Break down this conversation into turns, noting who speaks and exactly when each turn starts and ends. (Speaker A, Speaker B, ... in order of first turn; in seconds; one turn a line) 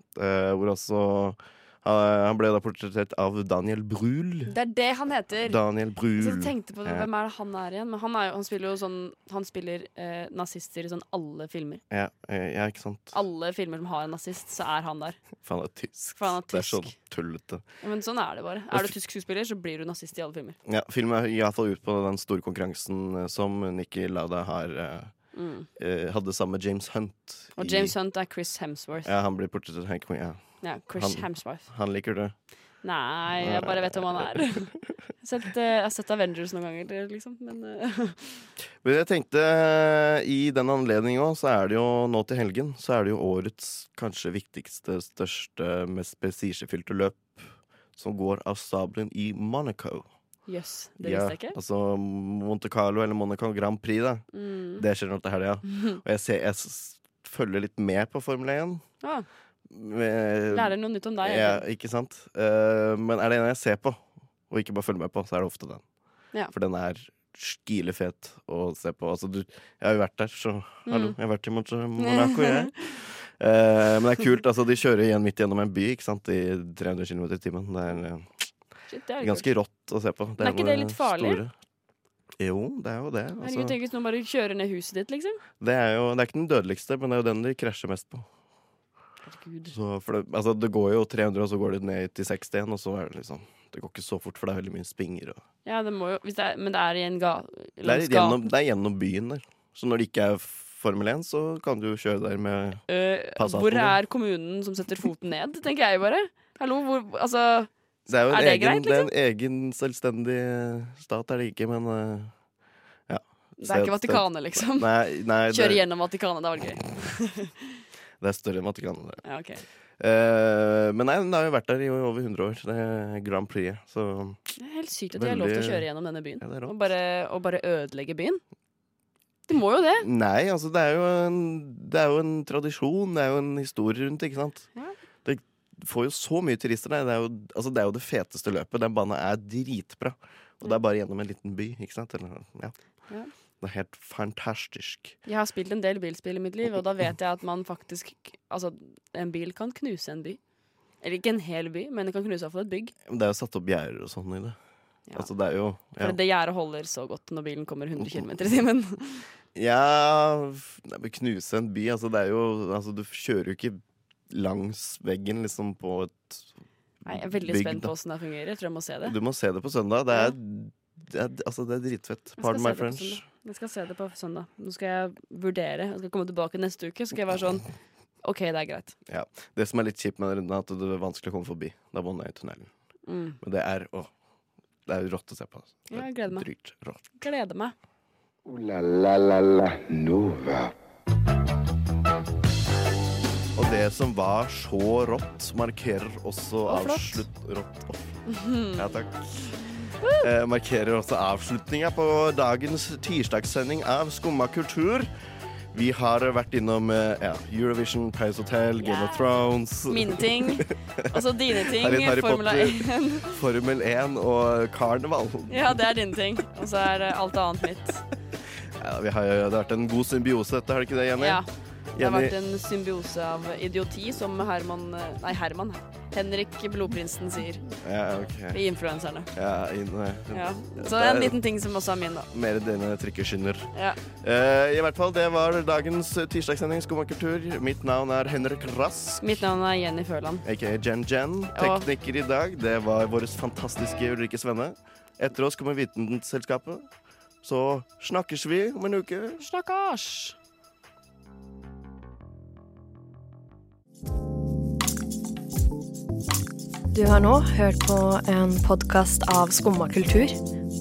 Speaker A: 0.1-4.5
Speaker B: 4.5-5.6
Speaker A: 5.4-7.1
Speaker B: 6.1-11.8
Speaker A: 11.9-13.1
Speaker B: 13.1-15.2
Speaker A: 15.4-17.6
Speaker B: 16.2-16.9
Speaker B: 17.8-20.6
Speaker A: 20.6-25.1
Speaker B: 25.3-25.7
Speaker A: 25.8-27.9
Speaker B: 27.6-29.1
Speaker A: 29.0-30.4
Speaker B: 30.6-31.7
Speaker A: 30.9-32.3
Speaker B: 32.8-38.5
Speaker A: 33.3-34.5
Speaker A: 38.8-50.1
Speaker B: 50.5-51.6
Speaker A: 51.0-54.2
Speaker B: 54.3-54.9
Speaker A: 54.8-58.8
Speaker B: 55.7-56.0
Speaker A: 59.7-65.8
Speaker B: 60.5-61.6
Speaker A: 66.5-78.4
Speaker B: 70.8-71.1
Speaker B: 72.0-72.7
Speaker B: 78.9-79.5
Speaker A: 79.2-81.5
Speaker B: 80.4-81.4
Speaker A: 82.4-83.8
Speaker B: 83.4-85.4
Speaker A: 85.6-88.3
Speaker B: 89.2-89.8
Speaker A: 89.7-95.4
Speaker B: 95.6-98.4
Speaker A: 97.8-102.8
Speaker B: 102.9-109.1
Speaker A: 103.3-104.0
Speaker A: 108.1-112.3
Speaker A: 113.1-115.8
Speaker B: 113.6-114.9
Speaker B: 115.5-117.8
Speaker A: 118.2-119.2
Speaker B: 119.2-119.6
Speaker A: 120.0-124.4
Speaker B: 124.6-128.4
Speaker A: 125.1-125.9
Speaker A: 126.4-126.8
Speaker B: 129.5-130.1
Speaker A: 130.0-134.7
Speaker A: 135.2-142.7
Speaker A: 143.6-145.2
Speaker B: 145.2-150.4
Speaker B: 151.0-152.9
Speaker A: 153.1-154.6
Speaker A: 155.1-156.2
Speaker B: 156.0-159.3
Speaker A: 158.0-158.3
Speaker A: 159.5-166.5
Speaker B: 167.1-169.2
Speaker A: 167.1-167.9
Speaker A: 169.0-173.2
Speaker B: 172.4-177.7
Speaker B: 178.2-178.9
Speaker A: 179.1-182.7
Speaker B: 183.1-183.4
Speaker A: 183.4-184.1
Speaker A: 184.9-187.2
Speaker B: 185.9-186.5
Speaker B: 187.2-187.7
Speaker C: 188.4-190.7
Speaker A: 193.5-198.2
Speaker B: 196.7-197.2
Speaker B: 198.3-198.8
Speaker A: 198.7-199.5
Speaker B: 200.0-200.3
Speaker A: 200.2-205.1
Speaker A: 205.7-215.9
Speaker B: 208.8-209.3
Speaker B: 209.8-213.4
Speaker B: 215.5-218.0
Speaker A: 218.8-221.4
Speaker B: 221.2-227.6
Speaker A: 221.9-222.3
Speaker A: 227.8-228.6
Speaker B: 228.5-229.3
Speaker A: 229.3-231.4
Speaker B: 230.3-232.3
Speaker A: 232.3-239.4
Speaker B: 233.7-234.0
Speaker B: 239.2-240.4
Speaker A: 240.4-246.8
Speaker B: 241.5-241.9
Speaker A: 247.4-249.4
Speaker B: 249.4-250.3
Speaker D: 256.9-260.4